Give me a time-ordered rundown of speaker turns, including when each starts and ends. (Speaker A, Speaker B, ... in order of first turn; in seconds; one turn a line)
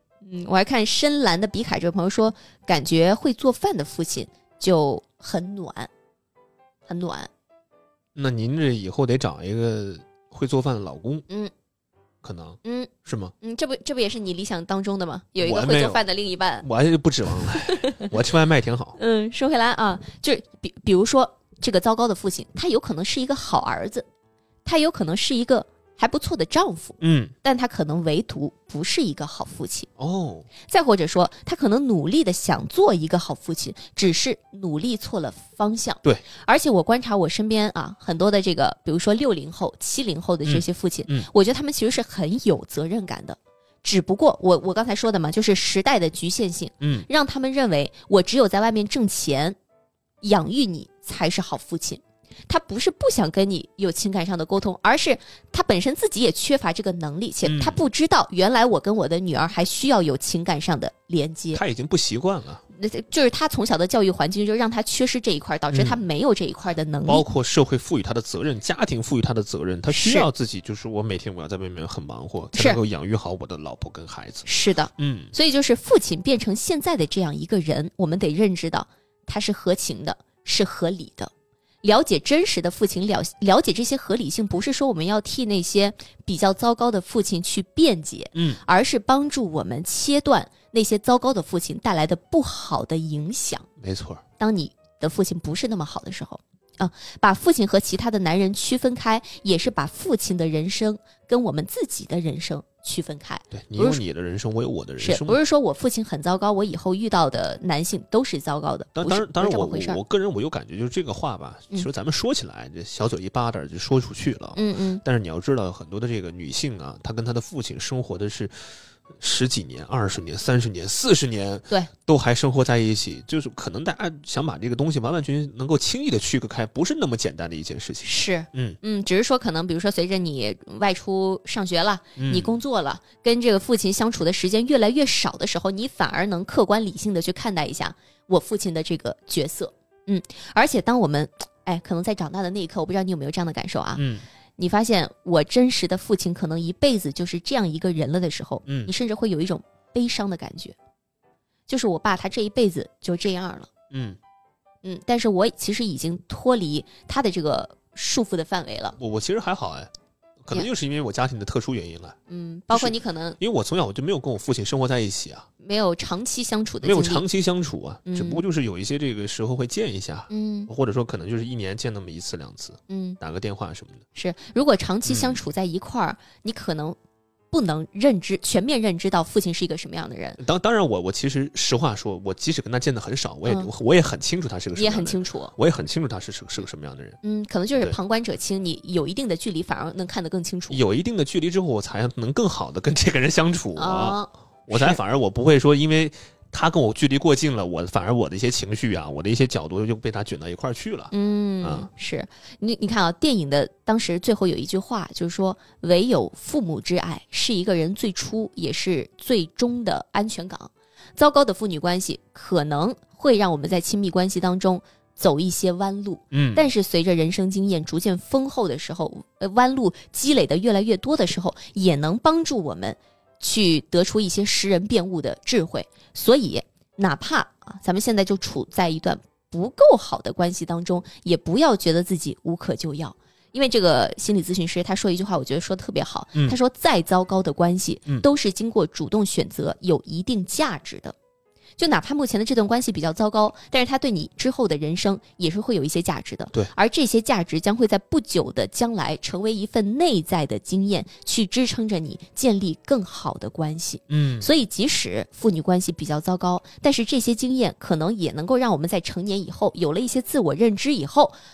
Speaker A: 0.2-5.9
Speaker A: 6.9-7.3
Speaker B: 8.2-11.2
Speaker B: 12.2-13.3
Speaker A: 12.6-16.7
Speaker B: 15.4-16.0
Speaker B: 16.6-19.0
Speaker A: 17.3-18.1
Speaker A: 19.0-24.1
Speaker A: 24.6-29.9
Speaker B: 27.0-27.3
Speaker B: 30.0-30.5
Speaker A: 30.6-49.6
Speaker B: 40.5-41.3
Speaker B: 46.8-47.1
Speaker A: 50.2-61.6
Speaker B: 57.4-57.8
Speaker B: 61.5-62.6
Speaker A: 62.7-67.2
Speaker B: 65.7-66.0
Speaker B: 67.1-74.5
Speaker A: 69.9-70.3
Speaker A: 72.5-72.8
Speaker A: 74.5-81.3
Speaker B: 75.0-75.3
Speaker A: 81.8-93.7
Speaker B: 88.3-88.6
Speaker B: 93.8-94.2
Speaker A: 94.4-104.0
Speaker B: 103.5-105.4
Speaker A: 105.0-110.0
Speaker B: 109.0-118.5
Speaker A: 114.5-115.0
Speaker B: 119.2-128.8
Speaker A: 128.0-144.0
Speaker B: 132.2-132.6
Speaker B: 144.0-144.2
Speaker A: 144.6-150.8
Speaker B: 148.7-148.9
Speaker A: 151.7-153.7
Speaker B: 153.9-154.2
Speaker A: 154.8-159.0
Speaker B: 159.0-159.9
Speaker B: 160.4-162.2
Speaker A: 162.3-163.4
Speaker B: 162.7-165.5
Speaker A: 165.6-167.2
Speaker B: 166.8-174.0
Speaker A: 168.1-168.4
Speaker A: 170.3-170.7
Speaker A: 172.9-173.2
Speaker A: 174.2-177.0
Speaker B: 175.1-175.4
Speaker A: 177.5-180.4
Speaker B: 180.4-187.2
Speaker A: 184.7-185.5
Speaker A: 187.2-190.8
Speaker B: 190.7-201.9
Speaker A: 193.8-195.0
Speaker A: 201.1-241.2
Speaker B: 216.3-216.7
Speaker A: 241.8-261.3
Speaker B: 254.1-254.5